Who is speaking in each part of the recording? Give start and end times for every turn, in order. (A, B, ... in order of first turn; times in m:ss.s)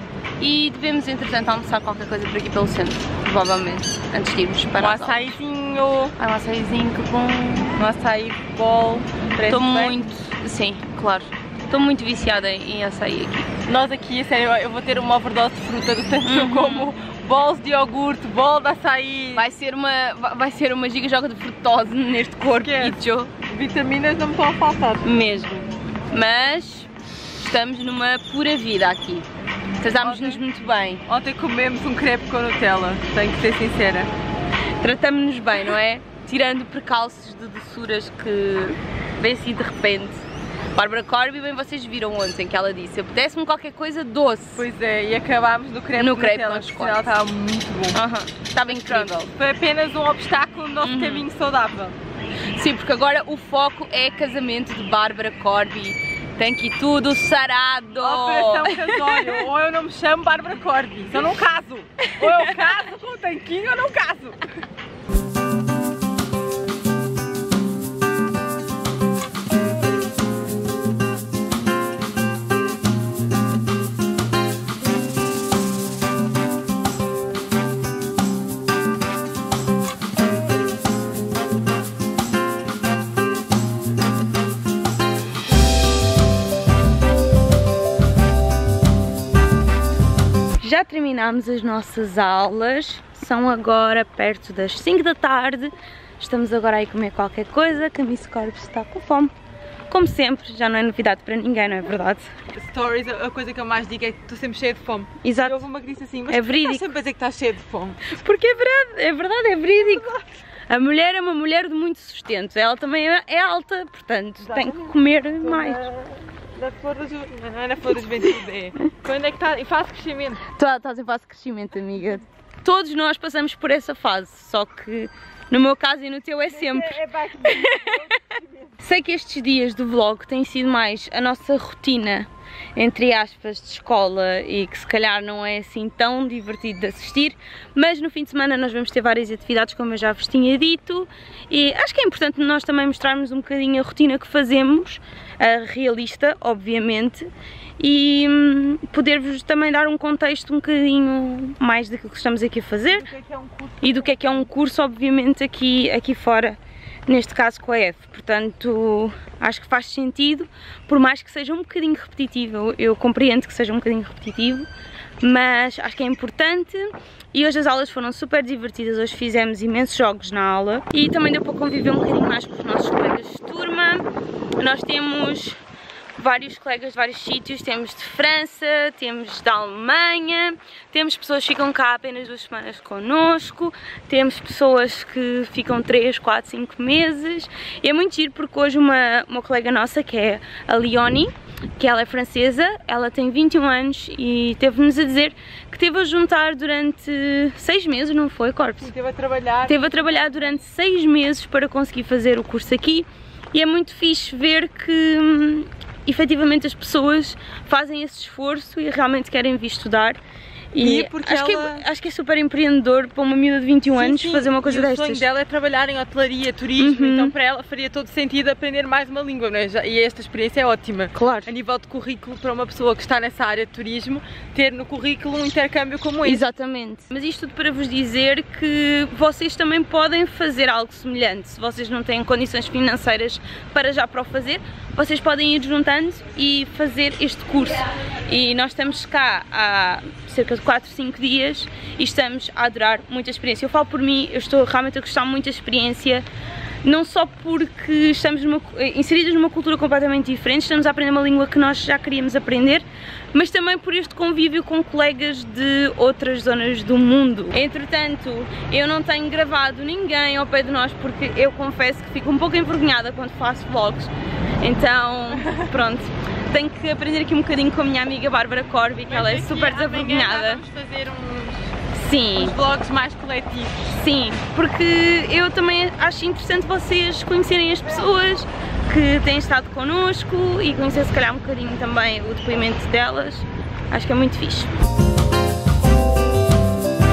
0:00.4-0:05.4 A
0:04.8-0:06.1 B
0:06.2-0:07.8 A
0:07.8-0:10.0 B
0:09.4-0:13.6 A
0:13.6-0:19.4 B
0:16.2-0:16.9 A
0:19.3-0:23.3 A
0:22.6-0:25.0 B
0:25.0-0:29.3 A
0:29.8-0:31.0 A
0:30.0-0:30.4 B
0:31.1-0:34.1 B
0:34.8-0:40.2 A
0:40.7-0:44.6 A
0:44.6-0:48.0 B
0:46.0-0:47.1 A
0:47.9-0:49.3 A
0:48.6-0:52.0 B
0:50.8-0:51.3 A
0:52.5-0:59.4 A
0:58.0-1:04.4 B
1:30.6-1:39.3 A
1:39.9-1:42.3 A
1:42.6-1:48.1 B
1:45.2-1:45.6 A
1:46.3-1:46.9 A
1:48.0-1:50.1 A
1:50.0-1:50.2 B
1:50.7-1:55.8 A
1:54.5-2:00.4 B
2:00.5-2:07.9 A
2:06.5-2:08.8 B
2:08.8-2:33.1 A
2:32.9-2:34.3 B
2:33.8-2:44.7 A
2:45.2-2:54.0 A
2:54.6-2:55.6 A
2:56.2-3:18.9 A
3:18.8-3:20.0 B
3:19.7-3:30.2 A
3:30.7-3:35.3 A
3:30.8-3:31.8 B
3:33.9-3:46.4 B
3:36.8-3:37.3 A
3:41.1-3:41.5 A
3:46.2-4:06.2 A
4:06.8-4:30.6 A
4:29.1-4:31.7 B
4:31.9-4:32.6 A
4:32.4-4:33.8 B
4:33.9-4:44.7 A